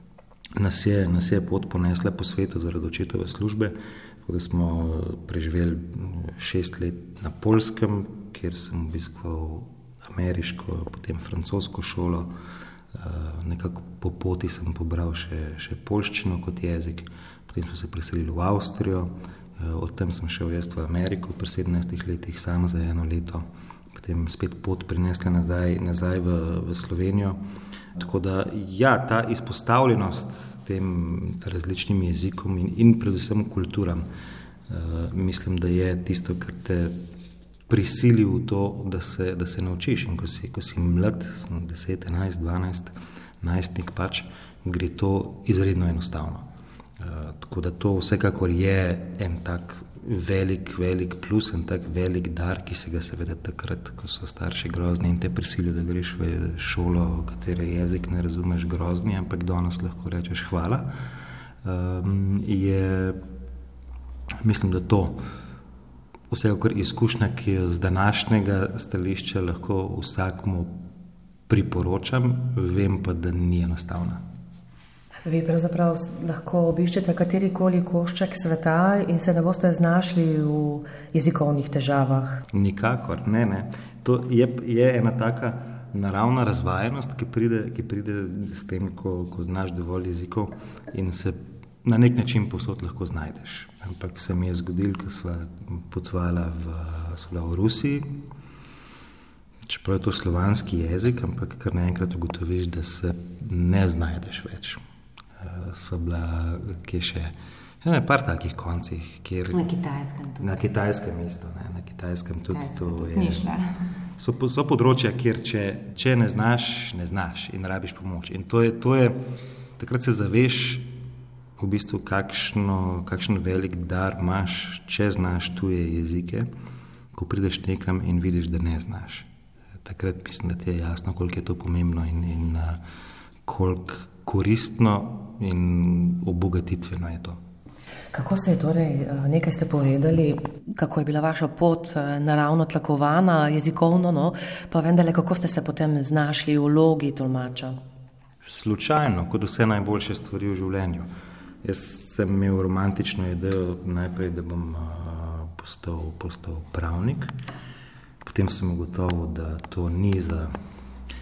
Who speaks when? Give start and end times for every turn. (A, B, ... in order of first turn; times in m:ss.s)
0:00.6-0:12.3 A
0:12.9-0:27.4 A
0:28.0-0:34.0 A
0:34.7-0:37.0 A
0:37.7-0:46.5 A
0:47.0-1:00.9 A
1:01.6-1:03.2 A
1:04.4-1:05.2 A
1:06.3-1:10.8 A
1:11.5-1:14.2 A
1:15.2-1:22.4 B
1:22.5-1:38.2 A
1:39.7-1:44.8 A
1:45.4-1:49.6 A
1:49.5-1:50.6 C
1:50.4-1:53.4 A
1:52.5-1:53.6 C
1:54.2-1:59.2 A
1:59.8-2:00.9 A
2:01.6-2:06.5 A
2:07.1-2:09.3 A
2:09.8-2:12.8 A
2:13.4-2:17.4 A
2:18.1-2:27.8 B
2:28.4-2:31.1 A
2:31.6-2:37.3 A
2:38.2-2:40.5 A